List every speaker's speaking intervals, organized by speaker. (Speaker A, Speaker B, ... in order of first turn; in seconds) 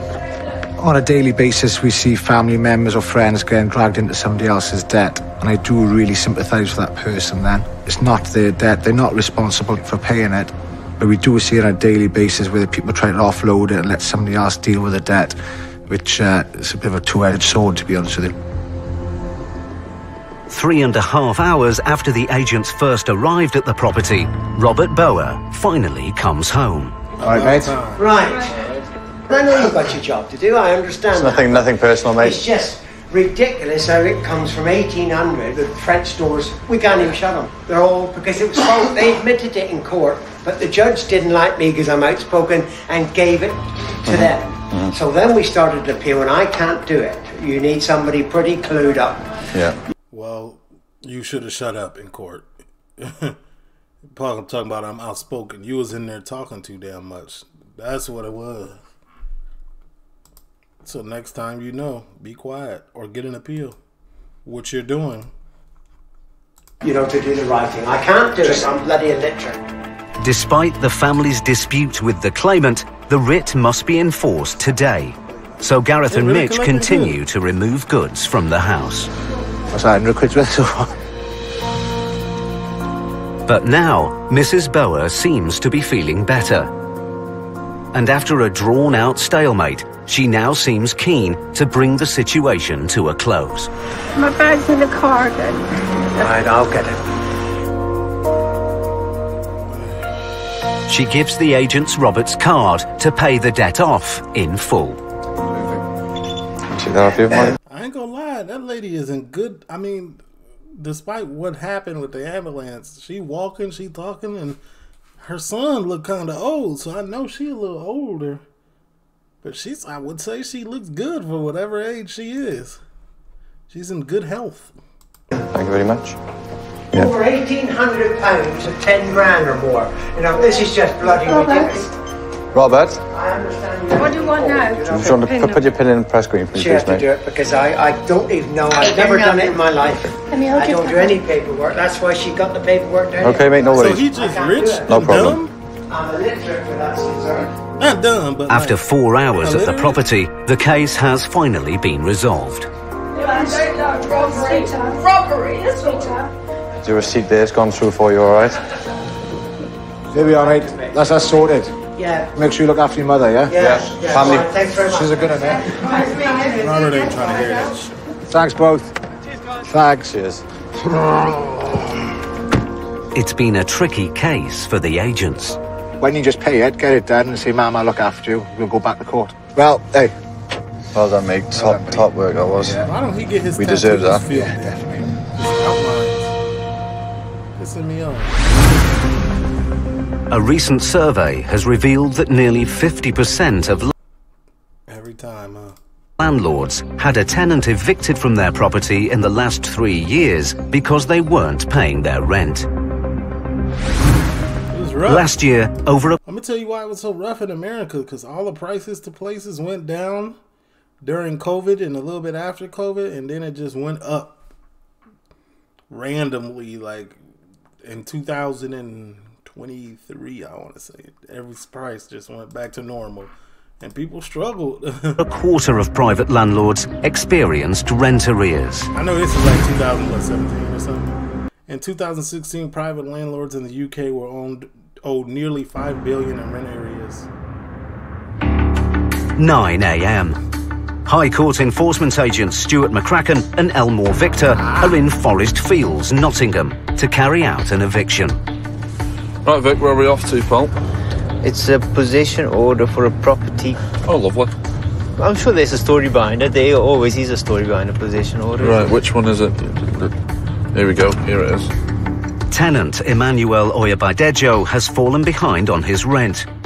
Speaker A: 0.8-18.4, 27.2-27.8, 79.7-80.9, 160.1-161.7, 162.3-165.7, 168.3-168.9, 169.6-170.1, 176.0-180.1, 181.5-182.8, 184.3-185.1
Speaker B: 20.5-27.0, 70.2-79.1, 83.5-86.7, 87.9-93.7, 100.9-105.0, 148.5-152.7, 173.1-175.6, 190.3-193.9, 196.2-202.7, 205.0-206.2, 225.2-228.9, 239.4-240.3, 241.1-248.4, 262.5-266.4
Speaker C: 27.2-28.2, 50.1-52.5, 53.0-53.4, 54.1-58.8, 60.8-63.8, 64.4-65.3, 76.1-77.2, 107.7-110.2, 110.8-114.6, 115.2-118.4, 119.4-122.8, 123.7-124.7, 143.7-145.5, 147.8-148.8, 149.4-150.0, 166.6-167.9, 182.8-184.7, 185.3-186.3, 187.6-188.3, 194.9-195.8, 204.7-205.3, 206.2-210.4, 211.0-214.4, 215.9-217.2, 217.8-225.2, 228.9-231.1, 231.7-237.3, 244.6-245.0
Speaker D: 27.9-28.5, 29.3-49.3, 66.8-69.6, 96.2-97.0, 126.9-131.9, 133.1-135.2, 136.5-145.1, 145.9-147.6, 160.1-160.9, 162.0-162.3, 163.5-167.6
Speaker E: 31.1-32.4, 44.0-45.0, 106.7-107.5, 125.5-126.2, 132.5-133.0, 134.9-137.1, 143.2-144.1, 144.8-145.4, 156.8-158.6, 163.6-164.6, 170.1-170.4, 180.9-182.8, 183.6-184.2
Speaker F: 94.1-96.4, 130.3-131.9, 133.9-135.6, 138.7-141.2, 153.1-156.3, 165.5-167.8
Speaker G: 249.4-250.7, 254.1-254.5, 258.6-260.1, 260.7-261.7
Speaker H: 251.4-253.8, 255.2-259.0